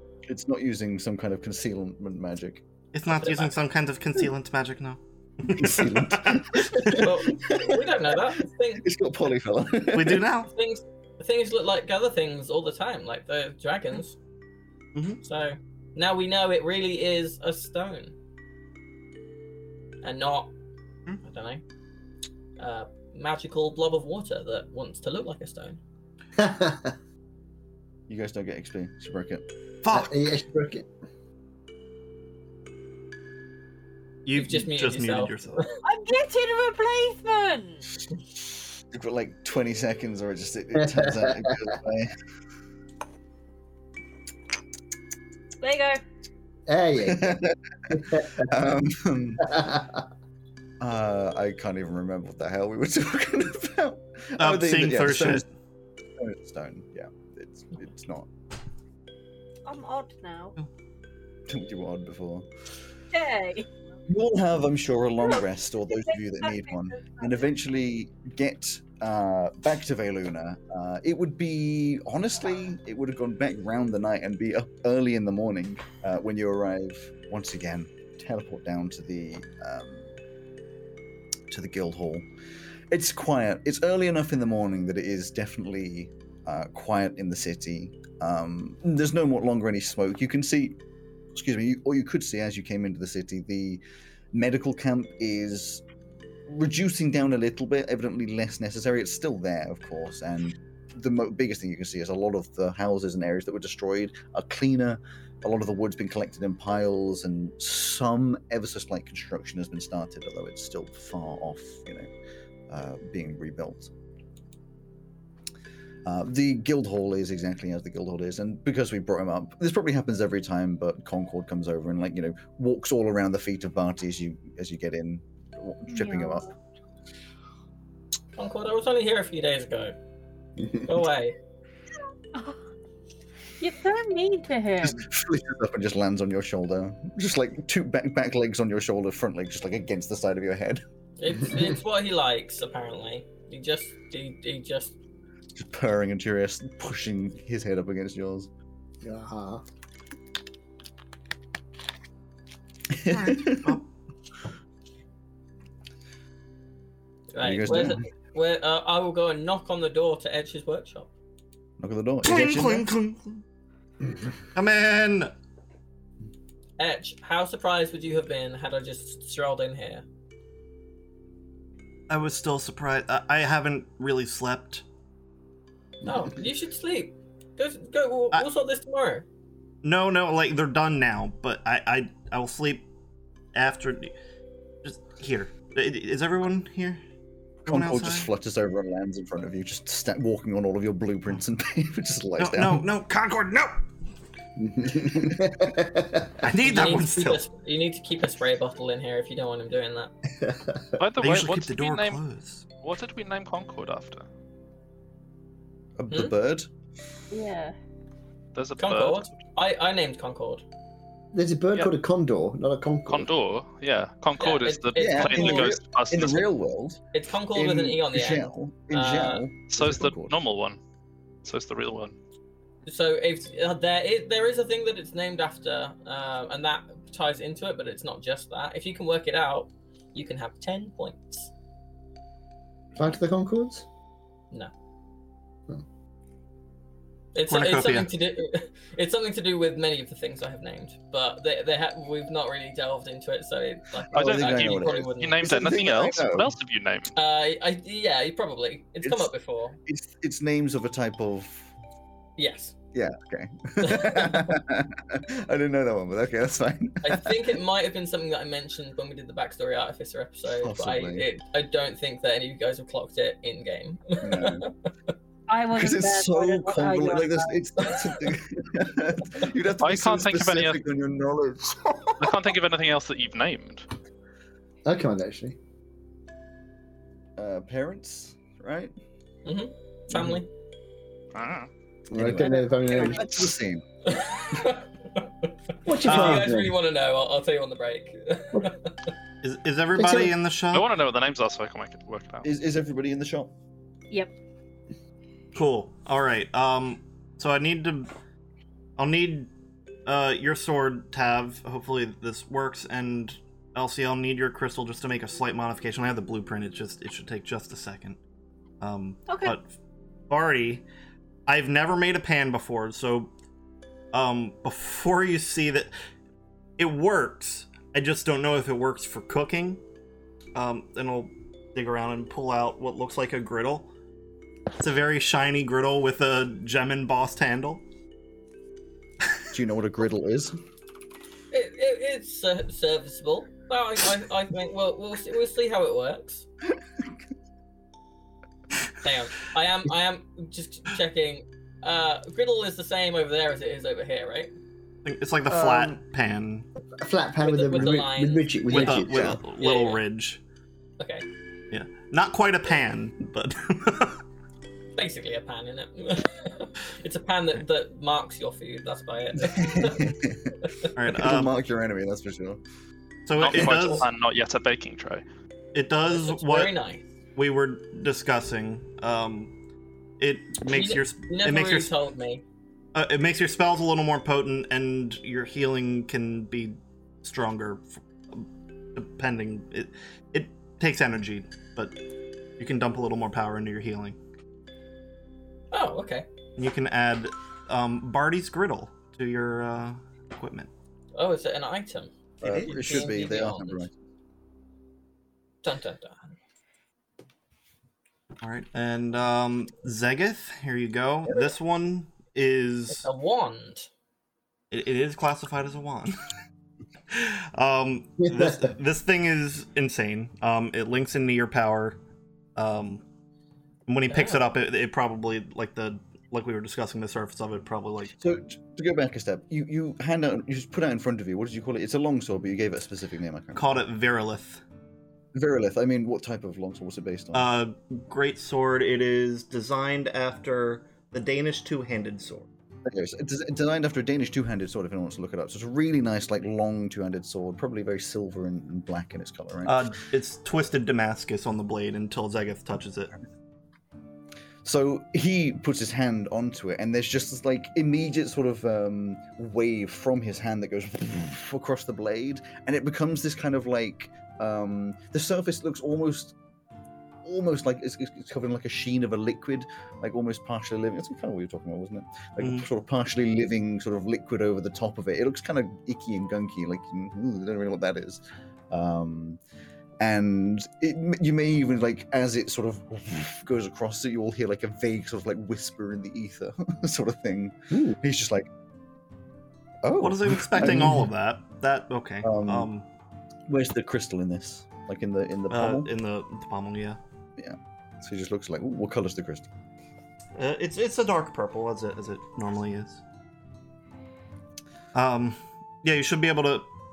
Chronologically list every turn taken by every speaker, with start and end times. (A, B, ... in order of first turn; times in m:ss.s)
0:00.3-0:02.6 A
0:02.9-0:07.1 B
0:03.1-0:03.6 C
0:05.6-0:07.8 A
0:06.9-0:08.9 C
0:08.8-0:10.2 A
0:09.9-0:10.5 B
0:10.5-0:14.2 C
0:14.9-0:15.2 B
0:15.2-0:18.1 C
0:20.0-0:20.5 C
0:21.2-0:21.6 C
0:22.6-0:25.8 C
0:26.4-0:26.9 D
0:28.1-0:29.4 A
0:29.8-0:30.1 B
0:29.9-0:30.9 D
0:34.2-0:35.7 B
0:34.3-0:35.7 C
0:35.8-0:37.9 E
0:38.9-0:42.1 A
0:40.7-0:41.7 D
0:45.6-0:46.0 E
0:46.7-0:48.5 D
0:47.0-0:49.5 A
0:49.4-0:50.0 D
0:50.8-0:55.5 A
0:54.4-0:55.4 B
0:56.2-0:58.3 A
0:59.6-1:00.6 E
1:01.5-1:02.5 A
1:03.1-1:03.7 E
1:04.1-1:20.1 A
1:06.1-1:07.4 E
1:21.5-1:22.2 A
1:22.9-1:30.8 A
1:31.3-1:33.8 A
1:34.3-1:35.8 A
1:36.5-1:52.1 A
1:52.7-1:53.9 A
1:56.0-2:06.5 A
2:05.9-2:06.5 E
2:08.4-2:09.9 C
2:10.6-2:10.8 D
2:10.8-2:11.4 C
2:13.6-2:15.1 E
2:14.8-2:20.8 A
2:21.2-2:24.9 C
2:25.5-2:28.5 A
2:29.0-2:29.6 D
2:32.9-2:33.8 A
2:33.1-2:33.8 B
2:37.3-2:41.1 C
2:37.4-2:38.0 A
2:41.8-2:42.8 A
2:42.2-2:43.4 B
2:44.5-2:45.3 B
2:46.8-2:50.0 C
2:52.1-2:54.8 B
2:56.0-2:56.3 D
2:56.0-2:59.2 C
2:59.8-3:02.9 B
3:03.5-3:04.1 B
3:04.8-3:07.0 B
3:07.6-3:08.3 B
3:07.6-3:12.8 A
3:12.4-3:13.7 B
3:14.6-3:16.4 D
3:16.4-3:17.4 B
3:16.6-3:20.1 C
3:20.4-3:20.9 D
3:21.0-3:24.3 F
3:21.2-3:22.7 B
3:26.0-3:26.7 A
3:27.3-3:27.8 E
3:28.5-3:29.4 F
3:28.8-3:30.6 C
3:31.3-3:33.3 D
3:33.1-3:36.5 F
3:34.4-3:35.8 C
3:35.0-3:37.0 A
3:37.1-3:39.4 C
3:37.5-3:40.4 A
3:39.7-3:40.8 F
3:41.4-3:42.2 F
3:42.8-3:51.5 C
3:52.9-3:53.8 D
3:57.3-4:05.8 C
3:57.5-3:58.1 B
4:04.1-4:06.5 A
4:04.1-4:07.1 F
4:07.2-4:09.8 C
4:09.0-4:09.3 A
4:09.8-4:11.7 A
4:12.4-4:12.8 C
4:12.9-4:17.3 A
4:13.8-4:14.5 C
4:17.0-4:25.1 C
4:20.6-4:21.2 A
4:24.2-4:24.7 A
4:25.5-4:28.0 E
4:25.7-4:32.4 A
4:29.8-4:30.8 F
4:32.2-4:33.8 F
4:34.8-4:35.6 D
4:37.4-4:38.9 A
4:39.4-4:40.4 C
4:41.3-4:41.7 F
4:42.1-4:43.2 D
4:42.1-4:43.8 A
4:42.8-4:43.3 C
4:44.0-4:45.3 C
4:45.8-4:46.8 D
4:45.9-4:49.1 C
4:46.0-4:46.4 B
4:49.4-4:50.9 B
4:49.9-4:50.4 D
4:50.7-4:52.4 F
4:52.4-4:53.5 A
4:55.5-4:58.1 B
4:59.0-4:59.5 B
5:00.0-5:08.2 B
5:08.8-5:09.7 B
5:09.3-5:09.6 E
5:10.3-5:10.8 B
5:11.5-5:13.3 B
5:14.1-5:15.9 B
5:16.8-5:19.8 B
5:20.5-5:23.9 B
5:24.8-5:27.8 B
5:29.5-5:30.6 A
5:31.5-5:36.4 C
5:39.0-5:44.5 C
5:45.0-5:46.7 B
5:45.5-5:45.9 A
5:47.0-5:49.3 D
5:47.4-5:50.0 C
5:48.7-5:50.4 B
5:51.0-5:51.2 C
5:51.7-5:54.2 B
5:55.0-6:00.1 C
5:59.5-6:00.6 A
6:01.0-6:01.5 B
6:01.1-6:02.6 A
6:03.2-6:04.1 B
6:03.4-6:05.2 F
6:03.5-6:04.0 A
6:05.7-6:06.7 B
6:06.1-6:07.0 C
6:07.4-6:09.5 B
6:10.2-6:11.9 B
6:10.6-6:12.4 C
6:12.9-6:22.0 B
6:22.6-6:24.2 B
6:25.7-6:26.2 C
6:26.6-6:30.7 B
6:31.2-6:33.9 C
6:32.4-6:33.9 A
6:32.4-6:33.1 B
6:35.6-6:36.4 C
6:38.4-6:43.1 B
6:42.9-6:43.9 C
6:44.7-6:46.1 B
6:47.1-6:52.0 B
6:48.2-6:48.7 D
6:52.6-6:53.0 B
6:53.9-6:58.2 B
6:54.1-6:54.5 C
6:58.2-7:03.8 A
7:03.5-7:04.6 B
7:05.3-7:07.5 A
7:07.3-7:12.5 B
7:12.8-7:19.8 A
7:19.6-7:23.2 B
7:24.6-7:36.3 A
7:37.2-7:49.4 A
7:42.4-7:42.7 B
7:50.0-7:58.5 A
7:57.7-7:58.0 D
7:59.8-8:01.0 A
8:00.0-8:02.8 B
8:02.2-8:02.7 A
8:03.5-8:05.9 A
8:05.5-8:07.0 B
8:07.4-8:09.5 A
8:10.4-8:13.0 B
8:14.9-8:16.7 B